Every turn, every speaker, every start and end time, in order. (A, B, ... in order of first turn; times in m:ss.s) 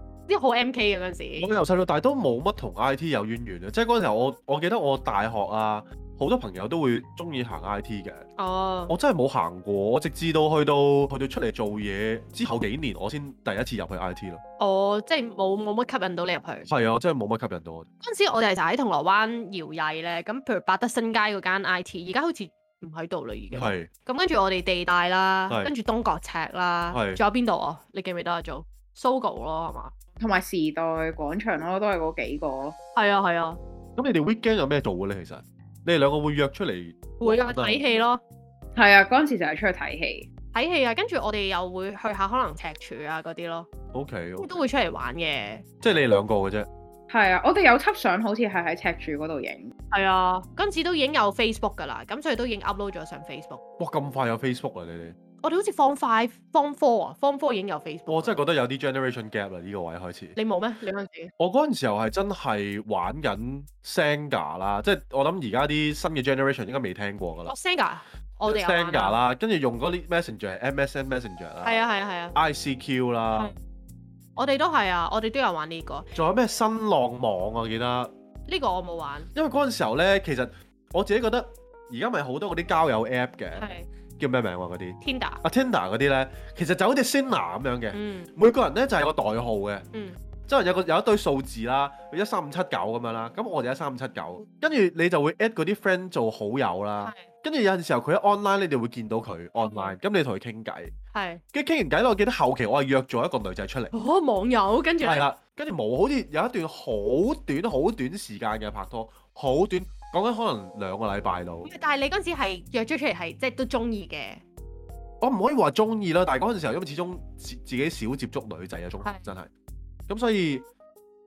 0:00.3-0:01.5 A
0:01.4-0:08.3 B
0:08.4-0:09.0 A
0:08.9-0:14.4 B
0:14.6-0:16.7 A
0:16.7-0:17.9 B
0:18.0-0:29.9 A
0:23.5-0:23.9 B
0:26.9-0:27.2 B
0:30.2-0:32.8 C
0:33.0-0:33.6 A
0:34.0-0:37.8 B
0:37.2-0:38.2 A
0:38.8-0:40.3 C
0:40.5-0:43.7 A
0:43.9-0:44.5 B
0:44.4-0:45.6 A
0:45.8-0:46.7 B
0:47.1-0:49.7 C
0:49.9-0:53.6 A
0:53.8-0:55.2 B
0:55.4-0:58.4 A
0:58.1-1:00.4 B
1:00.4-1:01.3 A
1:01.4-1:07.5 B
1:07.5-1:09.2 A
1:08.5-1:11.8 B
1:11.6-1:12.4 A
1:12.3-1:13.5 B
1:14.4-1:16.1 A
1:16.1-1:18.1 B
1:18.5-1:19.3 A
1:19.3-1:29.9 B
1:23.6-1:23.9 A
1:25.0-1:25.4 A
1:27.9-1:28.3 A
1:30.5-1:40.9 B
1:37.0-1:37.3 A
1:39.6-1:40.0 A
1:41.1-1:41.4 A
1:41.5-1:43.9 B
1:43.9-1:45.3 A
1:45.0-1:51.7 B
1:51.6-1:54.4 A
1:55.2-1:59.5 B
2:00.1-2:00.7 B